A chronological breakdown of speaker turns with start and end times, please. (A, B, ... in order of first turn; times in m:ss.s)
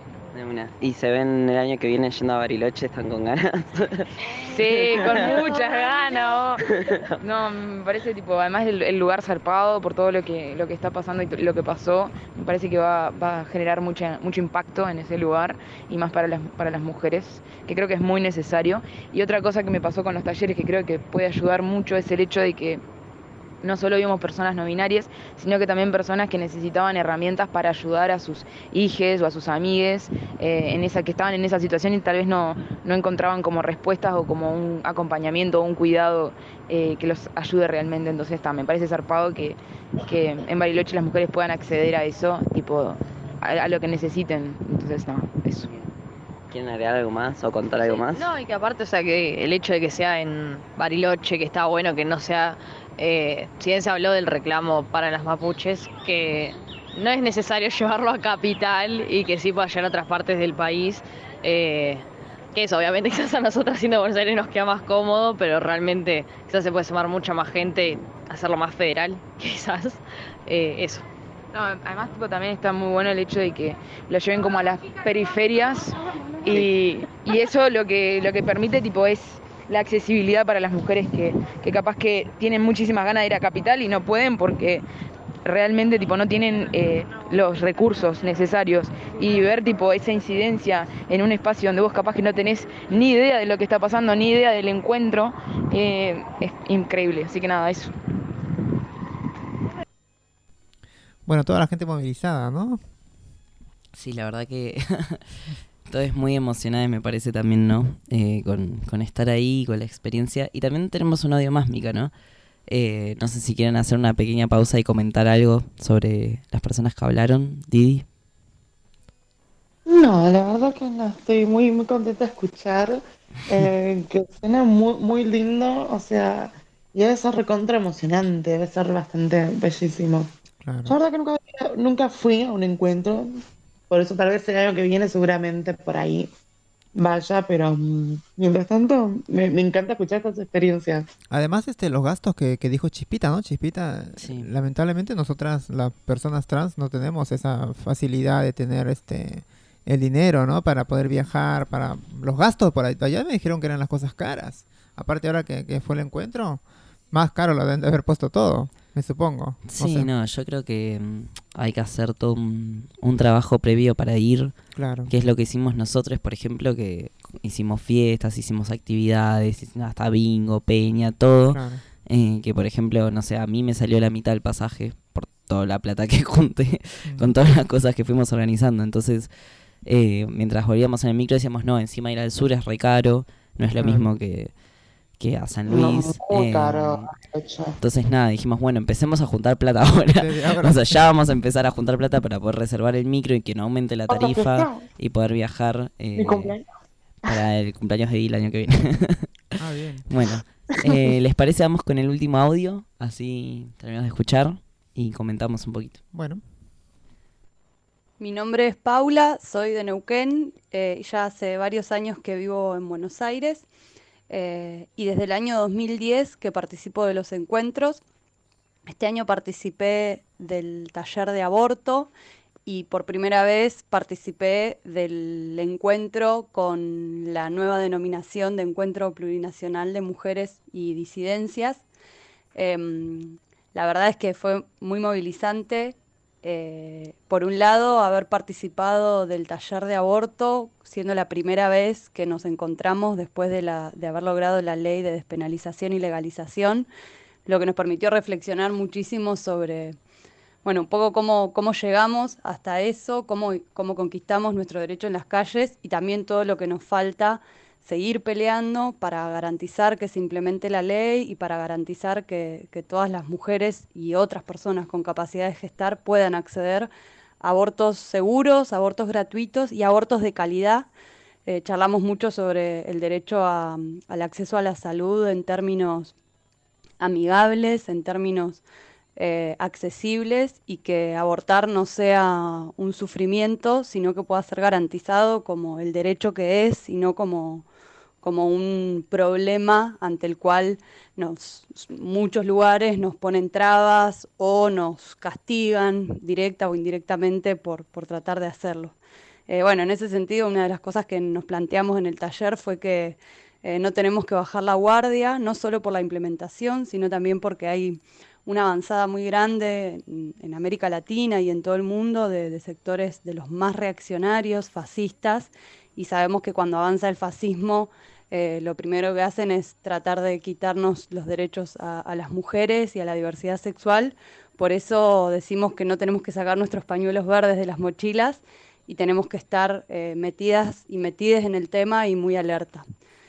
0:00.3-0:04.1 A
0:04.4-0:06.6 B
0:05.0-0:05.3 A
0:06.7-0:07.2 A
0:07.2-0:22.8 B
0:23.6-0:45.7 B
0:45.6-0:45.9 A
0:46.5-0:48.3 A
0:47.8-1:11.1 C
1:11.5-1:24.8 B
1:25.4-1:37.9 B
1:41.3-1:42.8 D
1:44.0-1:45.2 A
1:45.9-1:52.1 A
1:52.7-1:58.1 A
1:59.9-2:10.3 E
2:10.6-2:11.0 D
2:10.9-2:16.3 E
2:17.0-2:21.1 E
2:21.3-2:40.1 D
2:24.2-2:24.5 A
2:39.7-2:44.6 A
2:44.8-2:45.1 D
2:45.1-2:59.3 A
2:51.5-2:51.8 D
2:57.0-2:57.3 D
2:59.8-3:04.5 A
3:03.8-3:04.1 D
3:05.2-3:07.1 A
3:05.7-3:07.8 E
3:07.8-3:16.5 A
3:10.1-3:11.0 D
3:14.1-3:14.9 E
3:16.2-3:16.6 E
3:17.3-3:19.4 A
3:19.6-3:20.1 D
3:20.1-3:26.0 A
3:26.1-3:26.4 D
3:28.2-3:33.7 F
3:34.3-3:38.0 F
3:38.9-3:42.1 F
3:42.7-3:51.8 F
3:52.6-4:06.9 F
4:07.5-4:10.0 F
4:10.6-4:26.9 F
4:27.4-4:30.9 F
4:31.5-4:36.2 F
4:37.0-4:38.6 F
4:39.2-4:47.7 F
4:48.2-4:59.0 F
4:59.5-5:32.9 F